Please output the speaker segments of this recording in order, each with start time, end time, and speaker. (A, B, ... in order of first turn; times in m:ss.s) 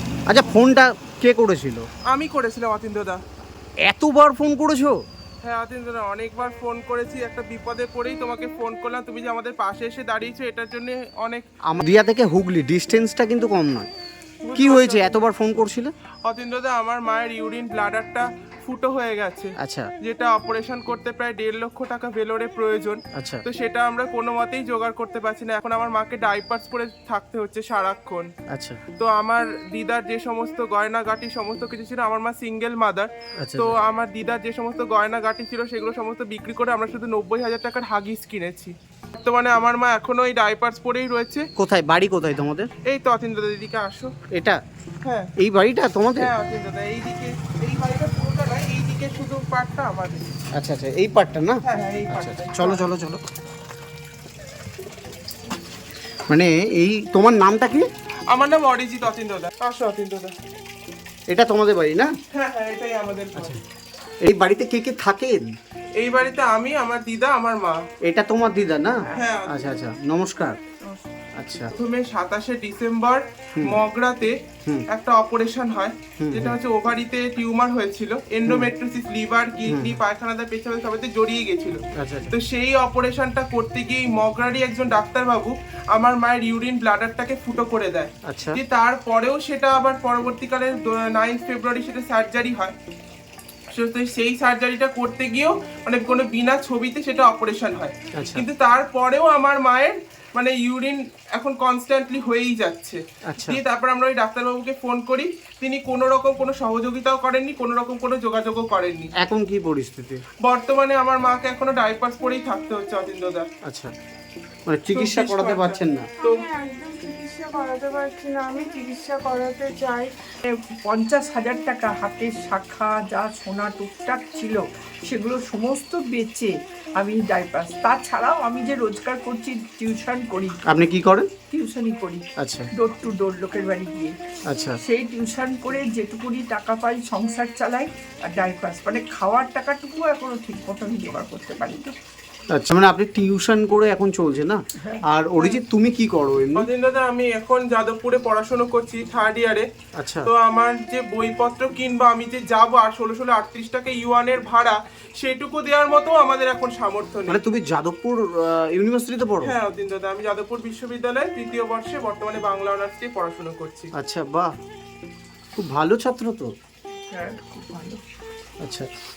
0:00.3-0:01.8 A
0:02.1-0:03.2 B
0:03.9-0:05.0 A
0:05.4-0:11.4 B
0:11.7-0:13.9 A
0:14.4-0:15.3 B
0:14.5-0:15.9 A
0:16.2-0:28.3 B
0:19.6-0:19.9 A
0:23.1-0:23.4 A
0:28.5-0:28.8 A
0:29.0-0:41.4 B
0:33.4-0:33.7 A
0:41.6-0:42.7 A
0:42.8-0:44.1 B
0:44.3-0:44.6 A
0:45.0-0:45.3 B
0:45.4-0:46.3 A
0:46.2-0:50.3 B
0:50.6-0:53.2 A
0:51.6-0:52.8 B
0:56.3-0:57.9 A
0:58.3-1:00.3 B
1:01.3-1:02.1 A
1:02.3-1:03.6 B
1:04.2-1:05.5 A
1:06.0-1:07.8 B
1:08.0-1:10.6 A
1:09.0-1:09.3 C
1:09.2-1:09.7 B
1:11.4-1:11.7 A
1:11.7-1:14.3 B
1:14.9-1:21.8 B
1:16.2-1:16.5 A
1:19.7-1:20.0 A
1:22.0-1:22.3 A
1:22.3-1:32.7 B
1:28.2-1:28.6 A
1:33.7-1:49.1 B
1:38.2-1:38.4 A
1:43.3-1:43.6 A
1:49.2-1:50.2 A
1:50.4-1:53.5 B
1:53.6-1:53.9 A
1:54.7-1:56.1 A
1:54.9-1:56.4 B
1:56.2-2:00.1 D
2:00.8-2:10.6 C
2:10.7-2:11.3 A
2:11.5-2:14.1 C
2:12.4-2:12.7 A
2:14.5-2:14.8 A
2:14.8-2:21.9 C
2:22.5-2:26.7 A
2:26.6-2:29.7 B
2:30.0-2:30.3 A
2:30.2-2:37.4 B
2:37.3-2:39.5 A
2:39.4-2:43.9 B
2:44.0-2:44.5 A
2:45.6-2:46.5 A
2:47.1-2:48.0 C
2:48.6-2:48.9 A